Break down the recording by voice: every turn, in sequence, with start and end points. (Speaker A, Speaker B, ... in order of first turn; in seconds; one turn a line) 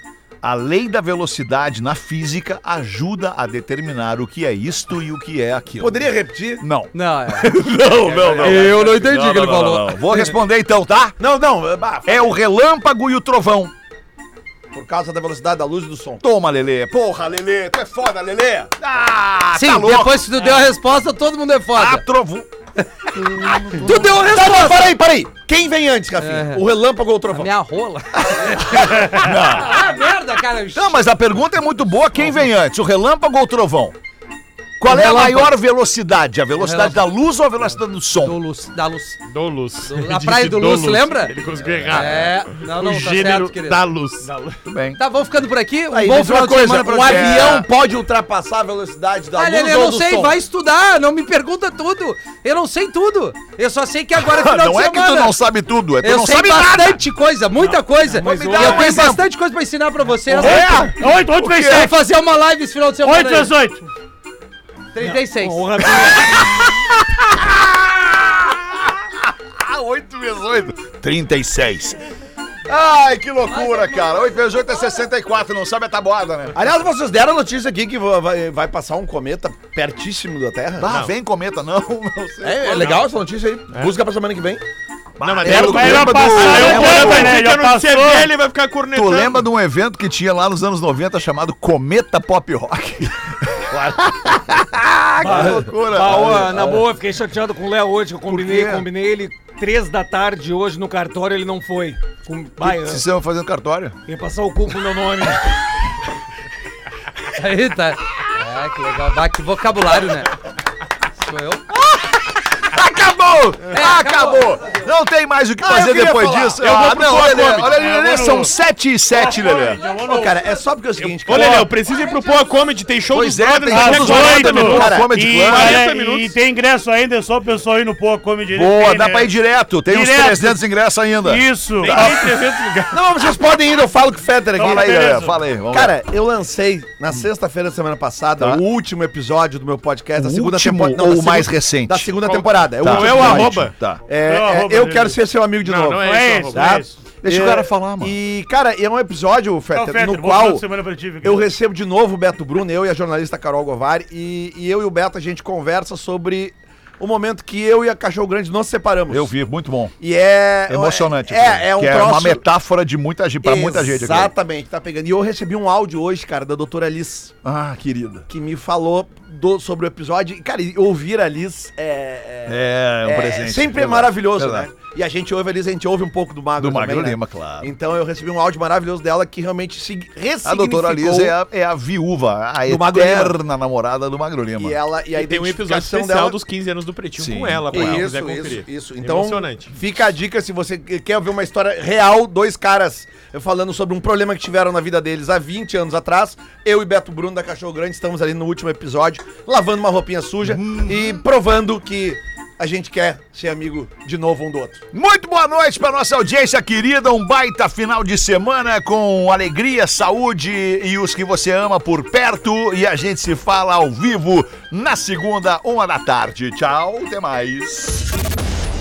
Speaker A: 0.4-6.0
Speaker B: 5.8-6.6
Speaker A: 6.6-11.2
Speaker C: 6.9-7.5
Speaker B: 8.0-8.8
Speaker C: 8.4-10.3
Speaker B: 11.2-12.3
Speaker A: 12.1-13.7
Speaker B: 14.7-16.2
Speaker A: 16.2-20.4
Speaker C: 19.6-22.0
Speaker A: 21.7-22.5
Speaker C: 23.2-24.9
Speaker B: 23.5-27.5
Speaker C: 26.2-26.6
Speaker C: 27.3-31.1
Speaker B: 28.3-28.8
Speaker A: 29.0-29.9
Speaker A: 30.7-34.0
Speaker A: 34.8-38.4
Speaker C: 34.9-35.5
Speaker C: 36.6-37.1
Speaker C: 38.1-39.2
Speaker D: 39.3-44.3
Speaker C: 39.8-41.3
Speaker A: 41.7-42.3
Speaker C: 41.9-43.8
Speaker A: 44.6-45.0
Speaker C: 45.0-47.6
Speaker B: 45.9-50.4
Speaker A: 46.9-47.7
Speaker C: 49.4-55.4
Speaker A: 54.1-57.0
Speaker C: 56.0-60.9
Speaker E: 57.6-59.1
Speaker A: 58.1-59.2
Speaker B: 58.3-59.0
Speaker A: 60.3-61.9
Speaker F: 60.5-61.9
Speaker C: 61.6-63.5
Speaker F: 63.0-63.9
Speaker C: 65.0-65.7
Speaker E: 65.0-66.5
Speaker A: 66.0-69.0
Speaker A: 69.6-72.0
Speaker A: 72.7-76.6
Speaker C: 73.5-73.9
Speaker B: 76.5-80.9
Speaker A: 80.8-83.0
Speaker D: 80.9-81.1
Speaker B: 82.4-84.6
Speaker D: 82.8-83.1
Speaker A: 85.2-87.4
Speaker D: 85.2-89.5
Speaker F: 85.5-88.3
Speaker B: 86.5-87.3
Speaker A: 88.9-96.8
Speaker E: 95.2-103.0
Speaker A: 98.3-98.9
Speaker A: 102.6-104.0
Speaker E: 104.1-105.5
Speaker C: 107.3-110.3
Speaker C: 111.2-111.7
Speaker A: 112.7-119.8
Speaker C: 113.7-114.7
Speaker B: 115.6-117.7
Speaker D: 116.6-117.6
Speaker F: 117.6-118.5
Speaker F: 119.1-120.4
Speaker B: 120.0-121.7
Speaker D: 121.0-126.3
Speaker A: 123.1-125.8
Speaker F: 123.7-129.3
Speaker B: 123.8-125.1
Speaker A: 128.5-132.2
Speaker F: 129.8-130.6
Speaker F: 131.2-132.4
Speaker D: 131.8-133.0
Speaker B: 132.9-150.7
Speaker F: 134.6-135.4
Speaker A: 134.6-136.0
Speaker A: 138.4-138.6
Speaker A: 140.2-142.2
Speaker D: 142.2-143.8
Speaker A: 142.8-144.0
Speaker F: 144.1-145.2
Speaker D: 145.6-146.8
Speaker F: 146.0-147.1
Speaker A: 147.2-148.2
Speaker F: 149.7-151.5
Speaker B: 151.2-159.3
Speaker A: 159.1-160.0
Speaker B: 160.0-162.4
Speaker A: 160.7-164.3
Speaker B: 163.4-167.3
Speaker A: 167.4-168.3
Speaker B: 168.3-181.3
Speaker A: 172.5-174.7
Speaker A: 176.6-177.7
Speaker A: 180.4-184.8
Speaker B: 182.7-183.4
Speaker B: 184.6-186.4
Speaker D: 185.1-189.7
Speaker A: 187.2-188.1
Speaker B: 187.7-204.8
Speaker A: 200.4-201.3
Speaker A: 204.9-218.1